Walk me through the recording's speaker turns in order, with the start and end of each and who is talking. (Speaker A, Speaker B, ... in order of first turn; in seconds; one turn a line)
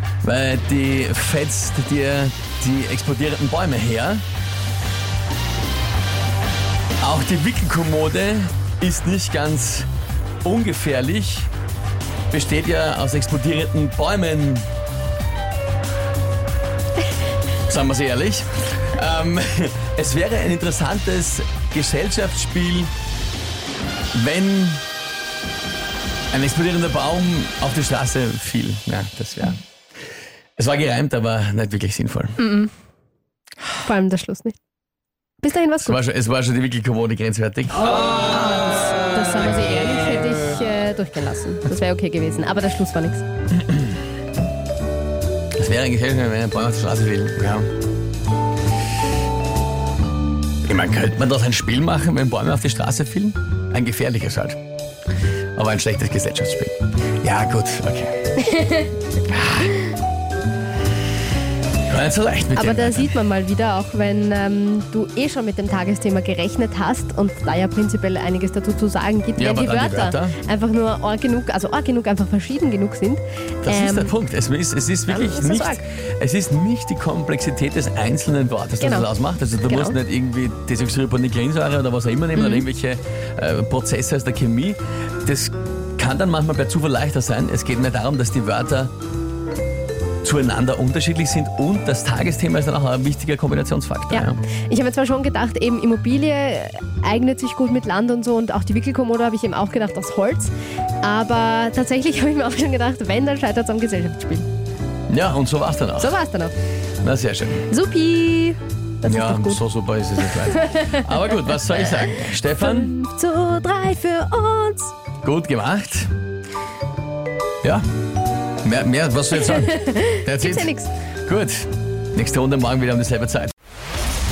Speaker A: 0.2-4.2
Speaker A: 7.0-9.9
Speaker A: 10.4-11.5
Speaker A: 12.3-14.7
Speaker A: 17.7-22.9
Speaker A: 24.1-24.8
Speaker A: 26.3-29.6
Speaker A: 30.6-32.4
Speaker B: 32.4-32.7
Speaker B: 33.8-34.5
Speaker B: 35.4-36.0
Speaker A: 35.8-38.1
Speaker B: 38.3-43.2
Speaker A: 43.5-43.9
Speaker A: 45.6-47.7
Speaker A: 50.6-54.6
Speaker A: 55.5-58.2
Speaker B: 58.4-58.9
Speaker A: 59.3-59.7
Speaker A: 61.9-63.2
Speaker B: 62.5-74.2
Speaker A: 69.4-70.4
Speaker A: 73.6-88.9
Speaker B: 75.1-75.8
Speaker B: 78.8-79.1
Speaker B: 79.6-80.0
Speaker B: 82.3-82.6
Speaker A: 90.2-94.4
Speaker B: 94.1-104.5
Speaker A: 105.1-106.1
Speaker B: 106.0-106.5
Speaker A: 107.0-107.7
Speaker B: 107.7-109.6
Speaker A: 109.0-112.9
Speaker B: 110.2-111.0
Speaker B: 111.9-114.9
Speaker A: 115.2-116.1
Speaker A: 118.6-120.7
Speaker B: 119.4-120.9
Speaker A: 121.2-123.5